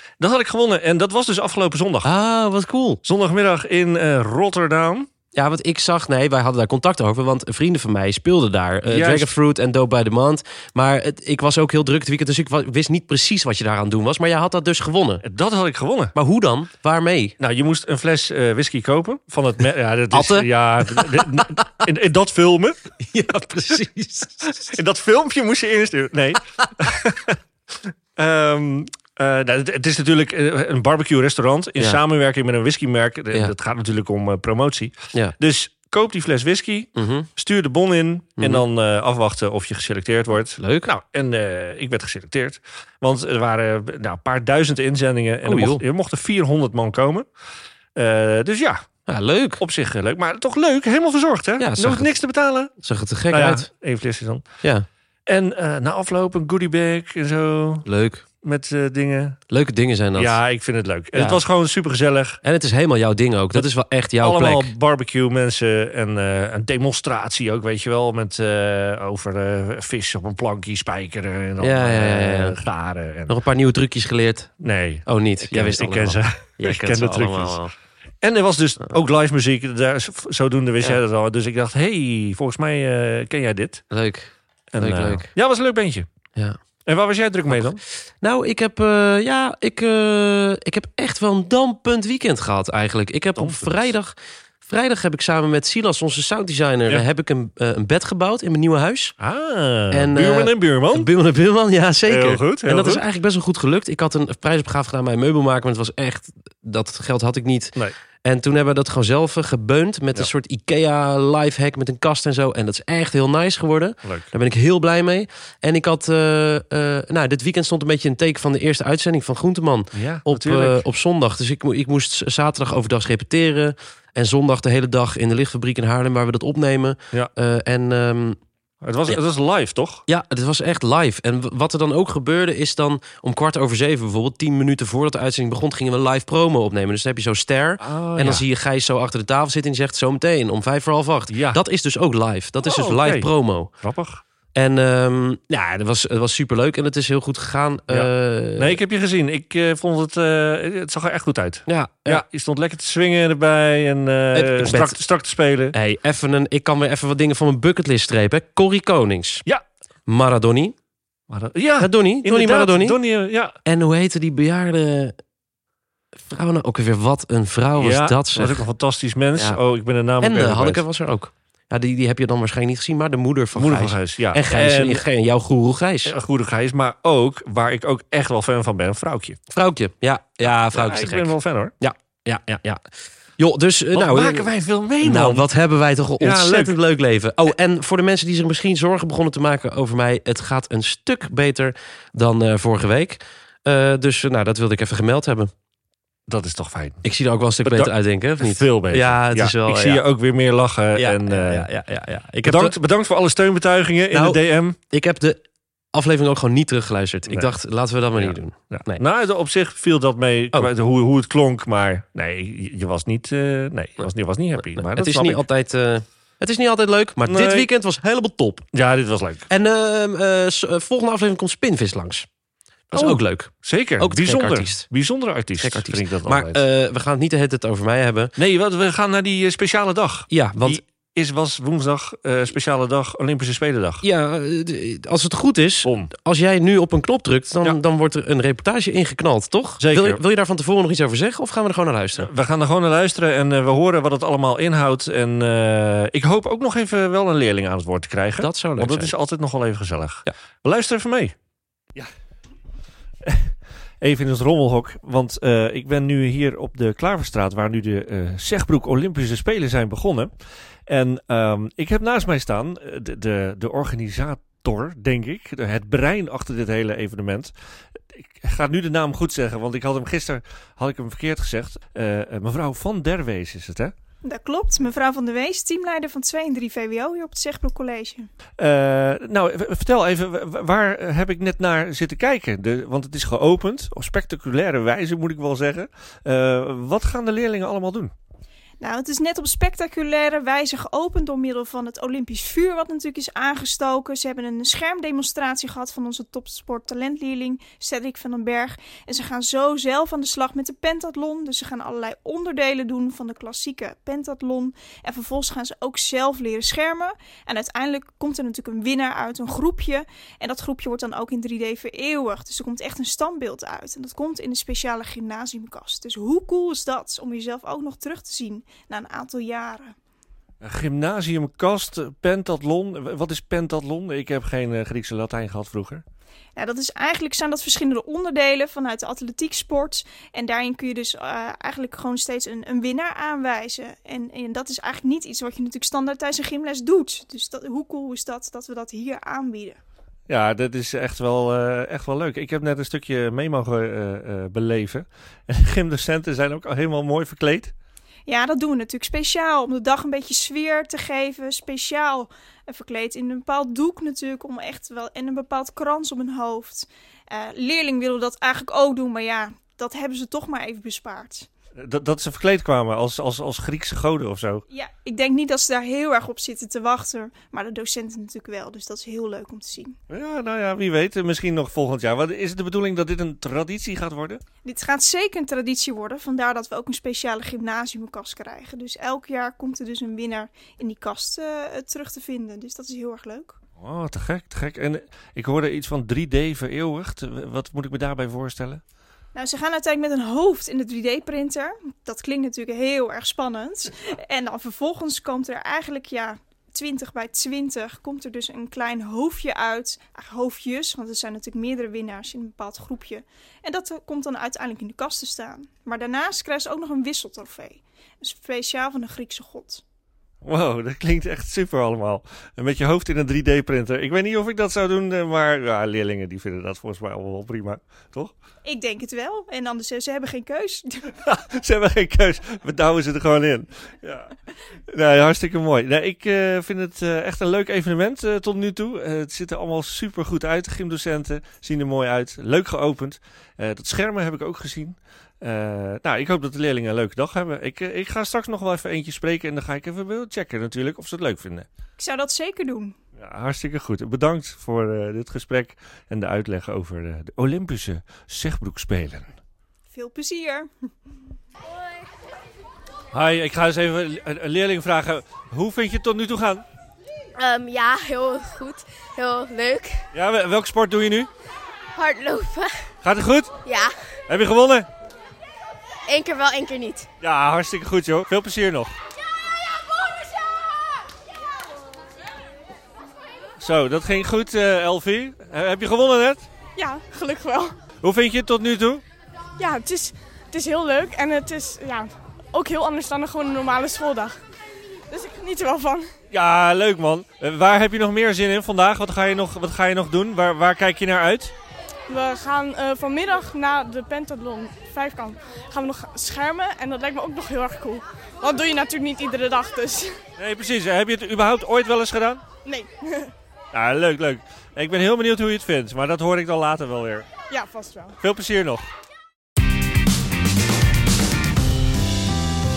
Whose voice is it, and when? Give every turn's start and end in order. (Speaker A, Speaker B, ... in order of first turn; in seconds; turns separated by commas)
Speaker A: 0.2-2.1, Speaker B: 2.0-3.0, Speaker A: 3.0-5.1, Speaker B: 5.3-15.2, Speaker A: 8.9-9.3, Speaker A: 15.2-16.1, Speaker B: 16.1-17.3, Speaker A: 17.4-22.8, Speaker B: 20.1-21.9, Speaker B: 23.0-24.8, Speaker A: 24.4-27.4, Speaker A: 28.1-47.2, Speaker B: 37.0-37.3, Speaker B: 38.4-38.6, Speaker B: 40.5-40.9, Speaker B: 45.5-45.8, Speaker A: 48.0-48.8, Speaker B: 49.1-49.6, Speaker A: 49.6-52.7, Speaker B: 51.6-52.1, Speaker B: 52.8-53.7, Speaker A: 53.3-54.4, Speaker A: 55.3-57.9, Speaker B: 57.8-58.2, Speaker A: 58.4-59.4, Speaker B: 59.5-60.4, Speaker A: 60.2-62.4, Speaker B: 61.1-61.4, Speaker B: 62.4-64.7, Speaker A: 64.2-73.3, Speaker B: 71.6-72.6, Speaker B: 73.3-74.5, Speaker A: 74.6-77.6, Speaker B: 75.0-77.7, Speaker A: 78.2-83.8, Speaker B: 83.9-85.3, Speaker A: 84.7-86.0, Speaker A: 86.8-87.8, Speaker B: 87.5-99.1, Speaker A: 93.3-93.9, Speaker A: 99.2-101.1, Speaker B: 99.9-128.4, Speaker A: 102.1-103.0, Speaker A: 114.0-114.3, Speaker A: 119.9-120.8, Speaker A: 128.8-130.0, Speaker B: 130.1-143.7, Speaker A: 137.8-138.4, Speaker A: 141.3-141.6, Speaker A: 142.6-143.3, Speaker A: 143.8-144.2, Speaker B: 144.5-148.8, Speaker A: 147.9-155.7, Speaker B: 151.7-152.2, Speaker B: 154.3-155.0, Speaker B: 155.7-159.4, Speaker B: 160.1-160.7, Speaker A: 161.3-163.5, Speaker B: 161.8-163.0, Speaker B: 163.6-165.1, Speaker B: 166.2-168.7, Speaker A: 167.8-170.8, Speaker B: 170.2-176.1, Speaker A: 173.5-175.0, Speaker A: 176.1-179.4, Speaker B: 179.5-195.5, Speaker A: 180.4-181.7, Speaker A: 183.9-185.5, Speaker A: 186.2-186.8, Speaker A: 196.3-197.0, Speaker B: 197.0-200.0, Speaker A: 197.6-201.7, Speaker B: 200.9-202.8, Speaker A: 202.4-204.8, Speaker B: 204.1-205.4, Speaker B: 205.9-209.0, Speaker A: 208.2-215.4, Speaker B: 214.6-218.7, Speaker A: 217.2-217.7, Speaker A: 218.7-219.5, Speaker B: 219.5-222.3, Speaker A: 222.9-226.6, Speaker B: 222.9-224.9, Speaker B: 225.6-228.3, Speaker A: 228.4-234.0, Speaker B: 230.3-230.8, Speaker B: 234.0-242.3, Speaker A: 235.8-236.1, Speaker A: 239.8-240.2, Speaker A: 242.2-251.3, Speaker B: 248.4-249.1, Speaker A: 253.2-260.3, Speaker A: 260.9-267.5, Speaker A: 268.4-273.9, Speaker C: 274.2-278.3, Speaker A: 278.6-288.1, Speaker C: 288.8-319.9, Speaker A: 320.6-326.0, Speaker C: 326.6-339.8, Speaker A: 340.3-347.7, Speaker C: 348.3-361.5, Speaker A: 361.8-364.6, Speaker C: 364.7-369.9, Speaker A: 370.1-374.4, Speaker C: 374.6-383.6, Speaker A: 383.8-388.8, Speaker C: 389.3-409.8, Speaker A: 410.4-418.3, Speaker C: 418.6-421.1, Speaker A: 421.2-424.3, Speaker A: 424.9-441.7, Speaker C: 442.0-442.9, Speaker A: 443.2-449.4, Speaker C: 449.9-450.7, Speaker A: 453.1-456.6, Speaker D: 457.4-460.1, Speaker A: 460.1-461.3, Speaker D: 461.9-462.9, Speaker A: 463.0-463.5, Speaker D: 463.6-464.1, Speaker A: 464.3-464.9, Speaker D: 466.1-467.1, Speaker A: 467.2-468.9, Speaker A: 473.6-476.5, Speaker E: 476.8-477.7, Speaker A: 478.0-479.0, Speaker E: 479.6-484.4, Speaker E: 485.1-486.1, Speaker A: 486.3-491.5, Speaker E: 492.1-500.2, Speaker A: 500.4-502.4, Speaker E: 502.6-503.3, Speaker A: 503.7-507.3, Speaker E: 507.5-508.1, Speaker A: 508.2-508.9